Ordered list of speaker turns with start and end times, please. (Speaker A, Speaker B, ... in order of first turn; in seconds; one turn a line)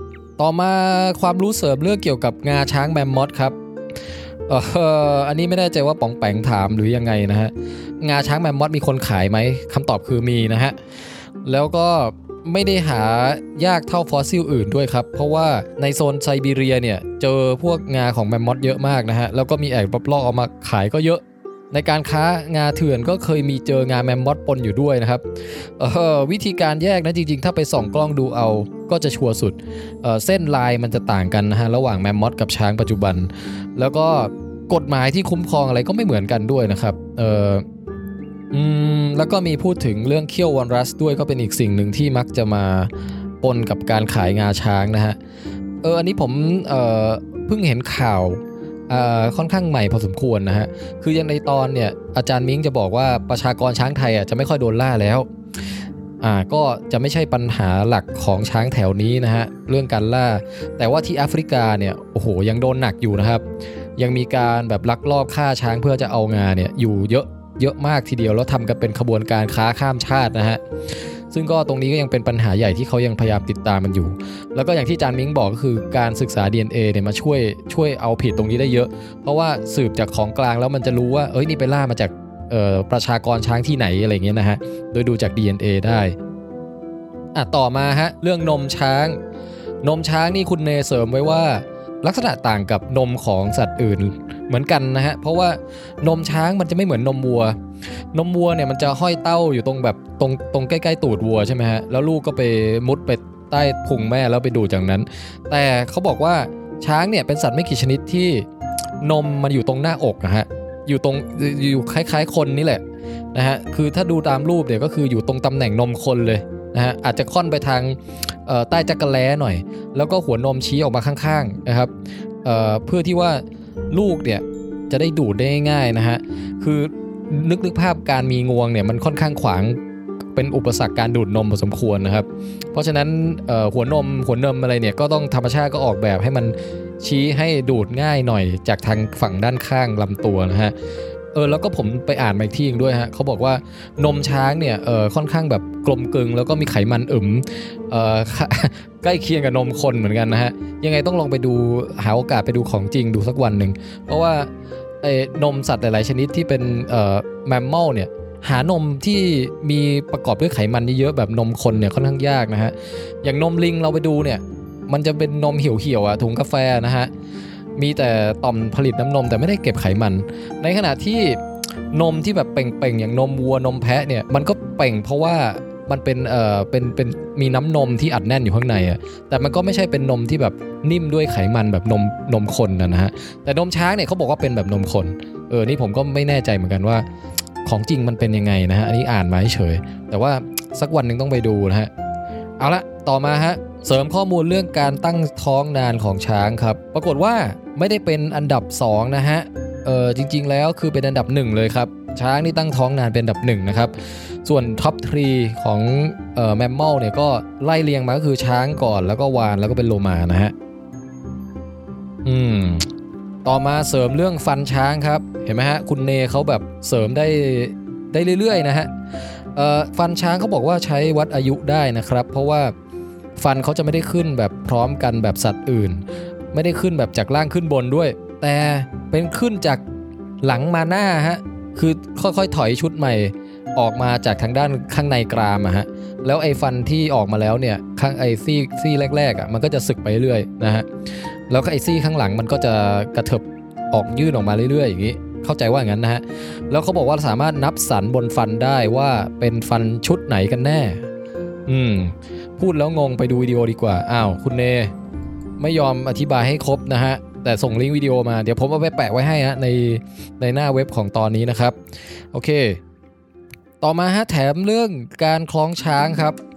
Speaker A: 0.4-3.5
Speaker A: 4.5-10.8
Speaker A: 11.4-37.6
Speaker A: 38.5-45.2
Speaker A: 45.8-55.3
Speaker A: 56.2-63.4
Speaker A: 64.0-70.6
Speaker A: 71.3-86.2
Speaker A: 87.3-89.2
Speaker A: 89.8-97.6
Speaker A: 98.1-108.5
Speaker A: 109.0-112.8
Speaker A: 113.3-121.9
Speaker A: 122.4-129.8
Speaker A: 130.3-140.7
Speaker A: 141.3-154.5
Speaker A: 155.0-167.1
Speaker A: 167.8-187.1
Speaker A: 187.6-191.9
Speaker A: 192.6-210.5
Speaker A: 212.2-212.9
Speaker A: 213.4-218.9
Speaker A: 219.5-222.7
Speaker A: 223.4-229.8
Speaker A: 230.4-240.9
Speaker A: 241.5-251.1
Speaker A: 251.7-254.9
Speaker A: 255.6-261.8
Speaker A: 262.3-262.8
Speaker A: 263.8-266.4